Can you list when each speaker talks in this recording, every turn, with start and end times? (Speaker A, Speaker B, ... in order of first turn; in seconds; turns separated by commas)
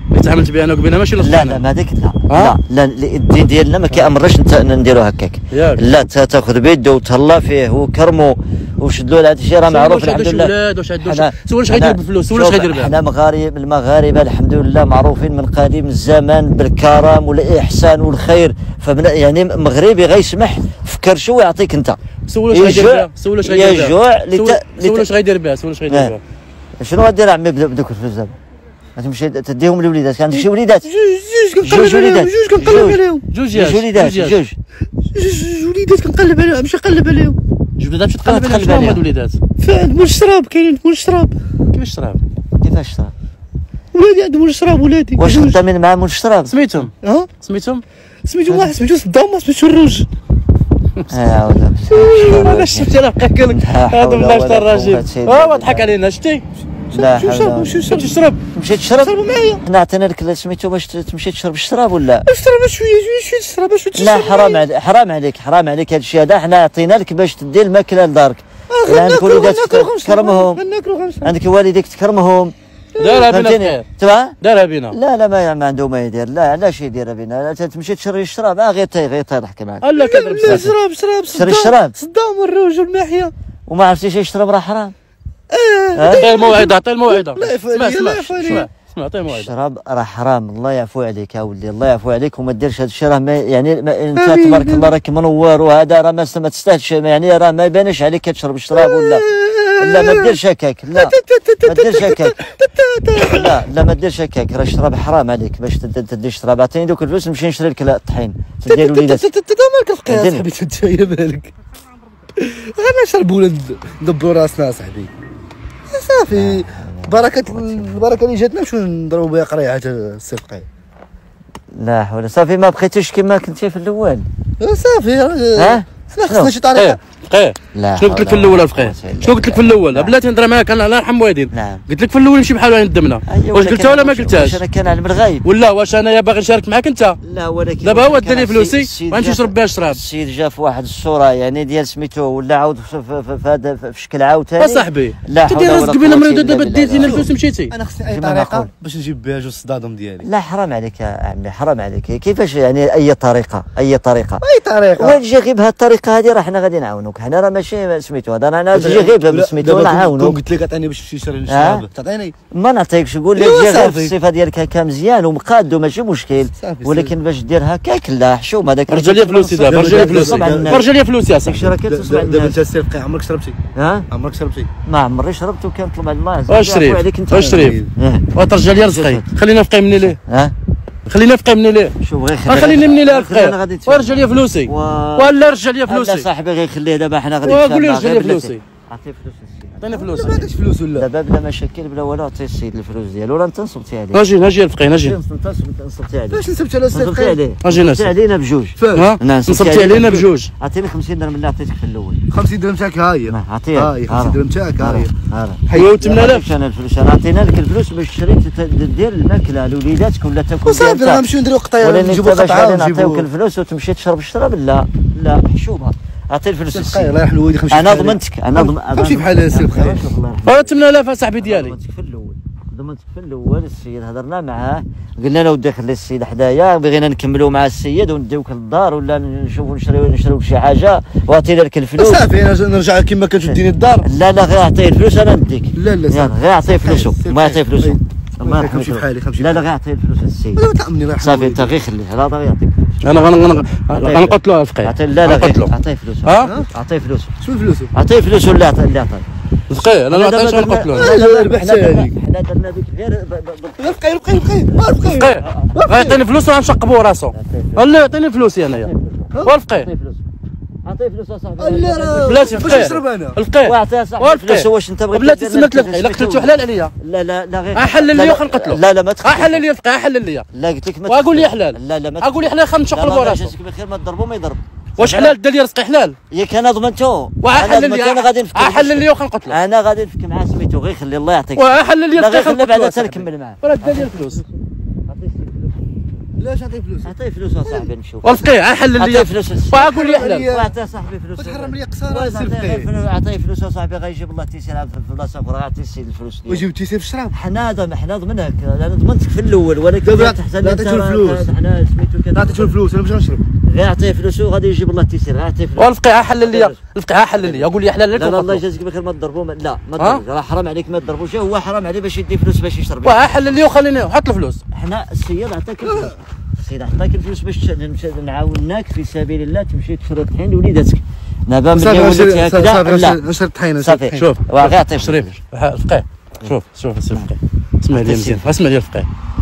Speaker A: 0.1-1.6, Speaker B: 1.2-22.0, Speaker A: 2.3-2.5, Speaker A: 5.5-5.8, Speaker A: 9.7-12.9, Speaker A: 22.2-26.2, Speaker B: 22.5-25.1, Speaker B: 25.9-26.1, Speaker B: 26.8-28.3, Speaker B: 28.9-30.9, Speaker C: 30.4-33.2, Speaker B: 31.6-34.6, Speaker A: 33.3-34.4, Speaker C: 35.1-37.4, Speaker A: 37.8-39.4, Speaker B: 38.2-39.0, Speaker C: 39.6-41.3, Speaker A: 41.7-42.2, Speaker B: 42.6-43.1, Speaker C: 43.9-45.6, Speaker B: 45.2-46.5, Speaker A: 46.5-47.8, Speaker C: 47.0-47.3, Speaker C: 48.2-50.1, Speaker B: 51.1-52.9, Speaker A: 52.0-56.4, Speaker B: 53.5-55.9, Speaker C: 56.9-58.1, Speaker B: 56.9-57.9, Speaker A: 57.9-58.4, Speaker B: 58.5-62.2, Speaker C: 59.0-59.6, Speaker C: 62.2-64.6, Speaker B: 63.9-70.6, Speaker C: 68.7-71.3, Speaker B: 71.2-72.5, Speaker C: 72.9-73.3, Speaker A: 73.0-73.8, Speaker B: 73.1-74.3, Speaker A: 74.4-75.0, Speaker B: 74.9-80.7, Speaker A: 79.8-80.7, Speaker C: 80.0-83.3, Speaker B: 81.3-81.9, Speaker B: 83.7-84.9, Speaker C: 85.5-88.7, Speaker B: 85.9-86.5, Speaker A: 86.1-89.5, Speaker B: 89.3-102.4, Speaker C: 94.1-94.9, Speaker C: 98.8-100.4, Speaker C: 100.9-103.5, Speaker B: 103.1-109.2, Speaker C: 108.7-111.5, Speaker B: 110.0-110.5, Speaker C: 112.3-115.1, Speaker C: 115.9-120.7, Speaker B: 116.3-118.2, Speaker B: 121.7-124.3, Speaker C: 124.6-127.0, Speaker B: 125.5-126.5, Speaker A: 126.7-134.6, Speaker B: 127.7-130.2, Speaker B: 131.5-131.8, Speaker B: 133.2-135.5, Speaker A: 135.4-137.2, Speaker B: 137.2-147.3, Speaker A: 137.8-140.0, Speaker A: 144.6-147.7, Speaker C: 147.0-150.3, Speaker B: 148.1-148.7, Speaker B: 150.2-154.4, Speaker C: 154.4-155.2, Speaker B: 154.9-160.4, Speaker C: 158.7-162.3, Speaker B: 161.5-161.8, Speaker B: 162.5-170.9, Speaker C: 163.3-164.1, Speaker C: 166.6-167.1, Speaker A: 168.9-171.7, Speaker C: 169.6-170.8, Speaker B: 171.4-172.6, Speaker C: 171.6-173.6, Speaker B: 173.7-174.1, Speaker C: 174.1-174.7, Speaker B: 174.8-179.3, Speaker A: 176.5-177.8, Speaker C: 177.3-177.9, Speaker A: 178.3-180.2, Speaker B: 180.0-180.5, Speaker A: 181.1-181.9, Speaker B: 182.0-185.3, Speaker A: 182.4-186.2, Speaker B: 185.8-194.3, Speaker A: 187.4-188.6, Speaker A: 189.8-190.3, Speaker C: 189.9-191.1, Speaker A: 194.1-195.2, Speaker B: 194.9-202.2, Speaker C: 196.3-197.4, Speaker A: 197.6-198.1, Speaker C: 198.8-199.1, Speaker A: 198.9-200.5, Speaker C: 202.3-205.1, Speaker B: 203.3-211.2, Speaker C: 205.7-206.0, Speaker A: 205.7-206.5, Speaker C: 210.6-213.3, Speaker B: 211.8-217.2, Speaker C: 216.7-220.1, Speaker B: 217.7-232.3, Speaker A: 220.4-221.8, Speaker C: 232.0-234.1, Speaker B: 233.4-240.6, Speaker C: 235.8-239.6, Speaker C: 240.6-241.7, Speaker B: 241.2-247.3, Speaker A: 243.0-246.5, Speaker C: 246.4-246.7, Speaker C: 247.4-247.9, Speaker B: 247.9-249.2, Speaker A: 249.7-251.1, Speaker B: 250.1-255.9, Speaker C: 250.9-252.1, Speaker C: 253.8-256.2, Speaker A: 255.1-258.9, Speaker B: 257.3-260.3, Speaker A: 259.4-259.9, Speaker B: 260.8-263.0, Speaker C: 261.6-263.4, Speaker A: 262.2-266.9, Speaker B: 263.6-269.6, Speaker A: 267.7-270.4, Speaker B: 270.5-275.4, Speaker A: 271.1-273.5, Speaker A: 275.0-276.1, Speaker B: 276.3-286.1, Speaker A: 277.4-279.6, Speaker A: 281.6-284.4, Speaker C: 286.4-287.1, Speaker B: 287.0-296.7, Speaker C: 287.6-287.9, Speaker A: 288.2-290.5, Speaker C: 289.8-290.7, Speaker C: 291.4-292.9, Speaker C: 296.5-297.3, Speaker B: 297.3-302.8, Speaker C: 300.0-301.5, Speaker C: 302.3-303.4, Speaker B: 303.6-306.8, Speaker A: 305.8-308.6, Speaker B: 307.4-313.6, Speaker A: 310.0-310.2, Speaker A: 313.0-314.6, Speaker B: 314.7-323.2, Speaker C: 315.8-316.1, Speaker C: 321.7-324.3, Speaker B: 323.8-325.3, Speaker A: 324.1-329.1, Speaker B: 327.9-328.5